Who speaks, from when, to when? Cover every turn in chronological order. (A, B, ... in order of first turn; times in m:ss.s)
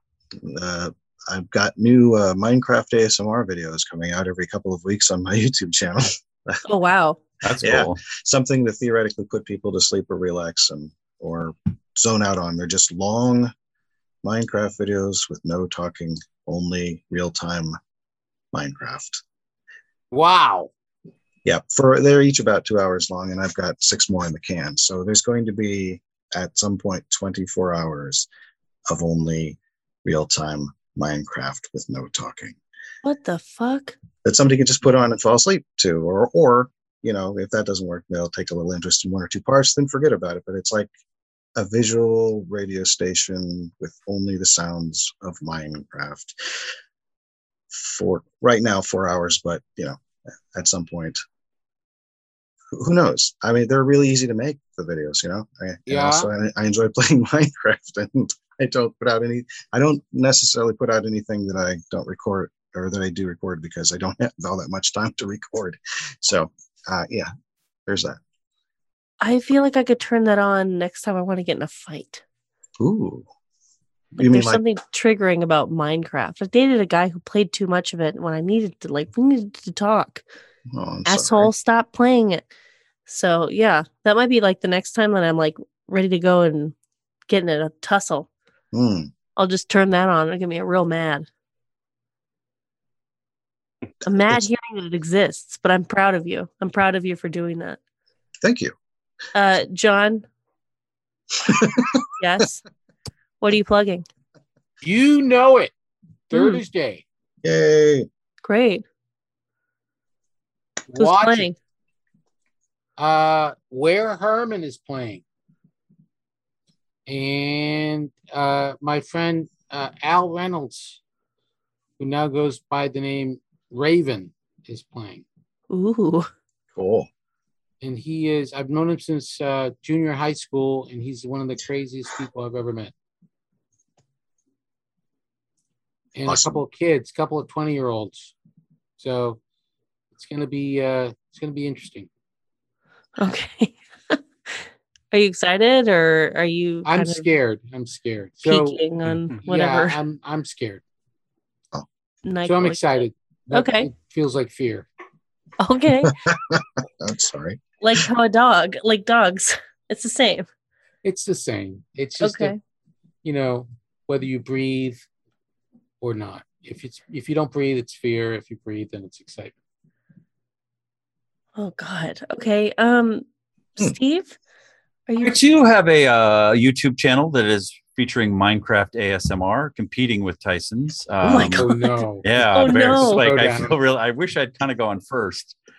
0:00.3-0:06.6 A
0:06.6-0:07.2 B
0:07.4-0:08.0 C
0:07.6-0:13.5 A
0:14.2-0:17.8 A
0:18.5-0:19.2 A
0:20.1-0:20.7 D
0:21.4-0:28.2 A
0:28.9-0:32.6 A
0:33.0-0:33.9 B
0:34.2-0:40.9 A
0:41.6-0:46.7 A
0:47.7-0:50.0 A
0:50.5-0:51.2 A
0:52.7-1:07.3 A
0:55.9-0:56.3 D
1:07.8-1:08.2 A
1:09.2-1:12.2 B
1:12.8-1:13.2 A
1:14.1-1:14.6 A
1:14.2-1:20.2 B
1:20.7-1:21.5 A
1:21.0-1:22.4 B
1:23.1-1:26.7 B
1:27.3-1:28.3 B
1:28.7-1:29.1 A
1:29.4-1:31.3 B
1:34.0-1:37.8 B
1:38.4-1:38.7 A
1:39.3-1:40.2 B
1:41.4-1:42.0 A
1:42.2-1:42.6 B
1:43.4-1:44.0 B
1:44.8-1:45.7 D
1:46.3-1:47.0 D
1:46.3-1:46.6 B
1:47.4-1:48.1 A
1:48.4-1:48.8 B
1:50.9-1:51.5 D
1:51.0-1:51.5 B
1:53.0-1:55.2 D
1:57.1-2:01.0 D
2:02.0-2:05.2 D
2:05.7-2:06.3 B
2:06.7-2:07.1 A
2:07.8-2:12.9 D
2:16.1-2:18.3 D
2:16.2-2:16.6 A
2:19.0-2:19.4 D
2:20.2-2:22.1 D
2:23.2-2:27.3 B
2:26.8-2:28.8 D
2:28.4-2:30.0 B
2:29.4-2:30.8 D
2:32.2-2:33.9 B
2:32.4-2:34.9 D
2:35.6-2:36.1 B
2:36.0-2:37.6 A
2:37.8-2:40.5 B
2:41.0-2:42.5 D
2:42.2-2:42.6 B
2:43.2-2:45.0 D
2:46.0-2:49.5 D
2:51.6-2:53.2 B
2:53.8-2:54.3 B
2:55.1-2:55.4 B
2:55.2-3:01.6 C
3:01.2-3:03.3 B
3:01.6-3:03.7 D
3:02.2-3:05.6 C